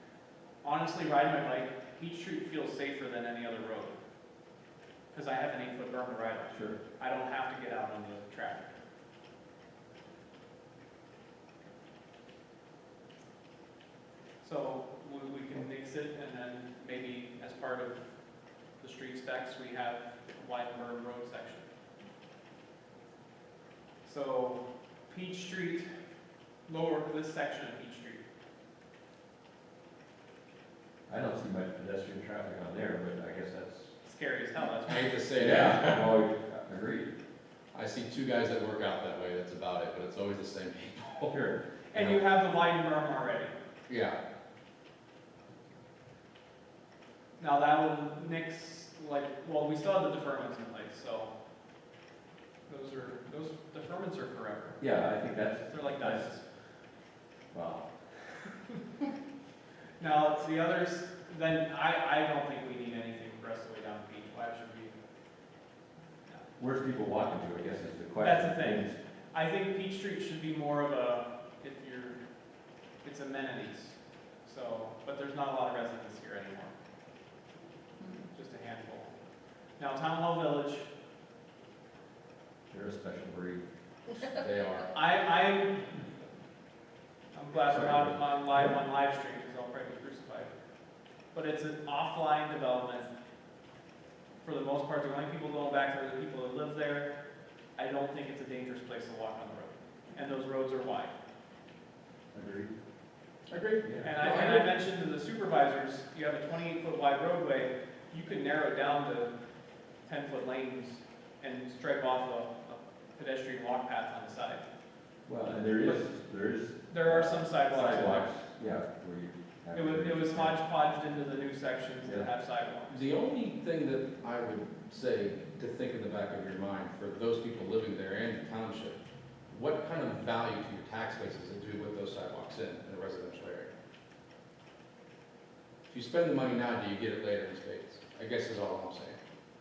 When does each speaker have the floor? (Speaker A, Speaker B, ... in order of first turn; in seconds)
Speaker A: 0.6-4.0, 5.1-8.7, 14.4-18.0, 18.8-21.7, 24.1-25.9, 26.7-28.2, 34.0-35.1, 41.9-43.5, 47.4-51.3, 52.7-54.8, 55.6-56.5, 60.0-64.9, 68.2-72.2, 73.0-76.7, 78.3-79.1, 79.8-80.9, 85.0-85.8, 87.3-90.5, 91.3-93.1, 94.4-97.1, 97.8-101.1, 104.0-109.3, 110.1-114.7, 116.9-118.3, 119.7-123.1
Speaker B: 6.5-6.8, 31.1-33.9, 35.4-37.1, 41.3-41.6, 54.8-56.3, 57.5-58.4, 66.6-69.0, 82.7-83.6, 87.7-88.8, 102.3-102.7, 103.8-104.1, 115.3-120.6
Speaker C: 34.9-36.1, 37.7-41.3, 42.0-42.2, 43.9-44.2, 84.1-84.9, 103.5-104.7, 122.9-133.7, 135.9-139.2